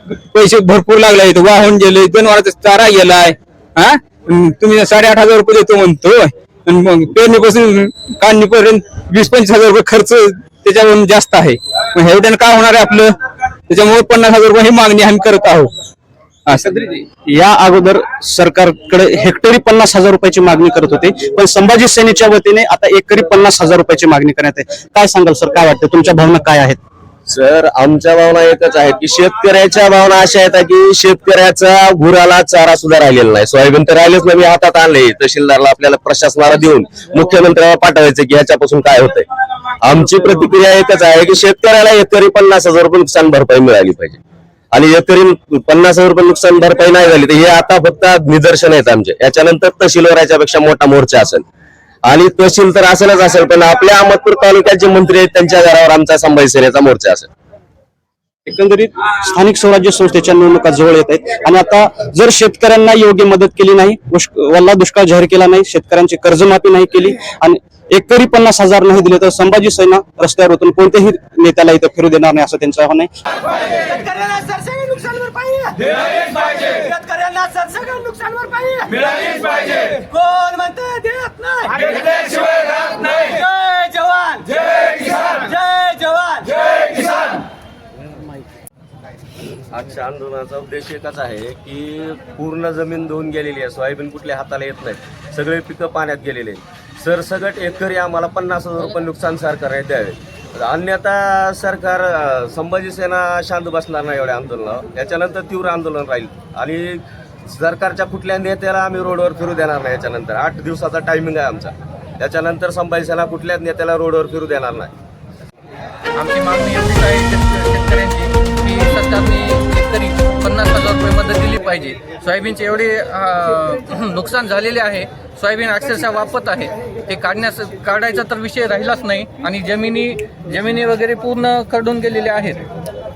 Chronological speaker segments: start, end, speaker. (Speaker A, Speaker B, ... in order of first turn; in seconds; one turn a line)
Speaker A: 0.3-13.2
Speaker A: 13.7-15.7
Speaker A: 16.5-17.1
Speaker B: 17.2-26.8
Speaker C: 27.3-39.3
Speaker C: 39.8-44.2
Speaker C: 44.7-51.5
Speaker C: 52.1-57.3
Speaker B: 58.5-73.1
Speaker D: 73.4-87.4
Speaker C: 89.7-114.9
Speaker E: 116.2-132.7